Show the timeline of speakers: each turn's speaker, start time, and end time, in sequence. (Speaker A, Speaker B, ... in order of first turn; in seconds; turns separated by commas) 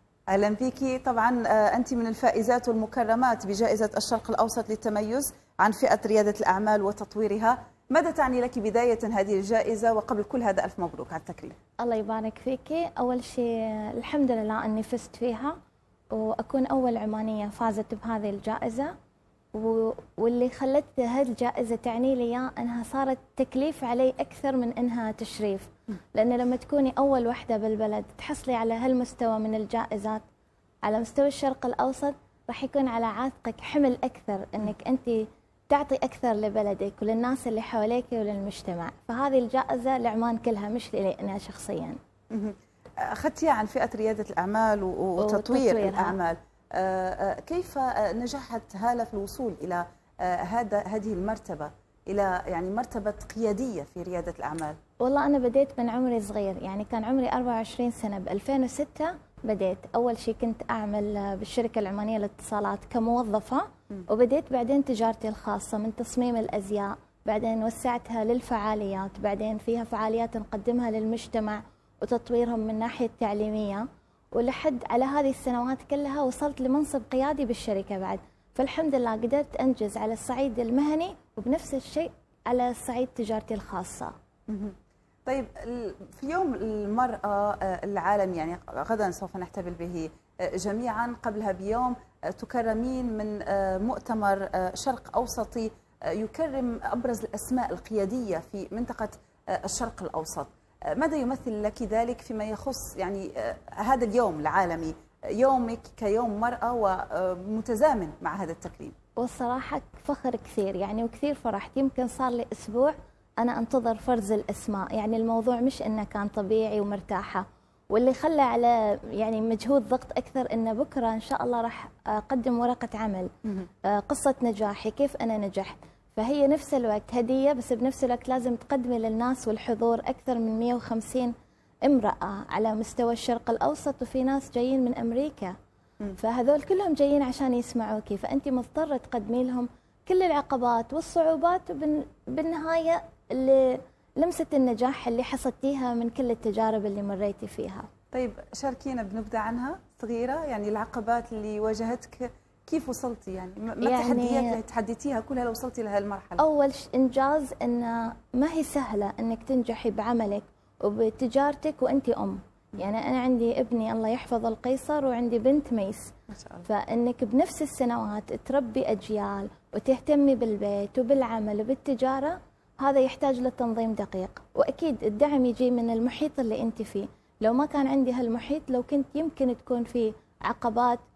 Speaker A: 0.3-11.5, Speaker B: 11.8-15.5, Speaker B: 16.1-18.9, Speaker B: 19.5-30.2, Speaker B: 30.8-42.0, Speaker A: 42.3-54.8, Speaker B: 45.2-46.1, Speaker B: 55.0-84.1, Speaker A: 84.5-108.9, Speaker B: 109.2-123.3, Speaker B: 123.8-131.3, Speaker B: 131.8-135.5, Speaker B: 136.2-147.9, Speaker A: 148.1-156.4, Speaker B: 153.8-154.6, Speaker B: 156.4-166.1, Speaker A: 166.3-166.7, Speaker B: 166.7-181.0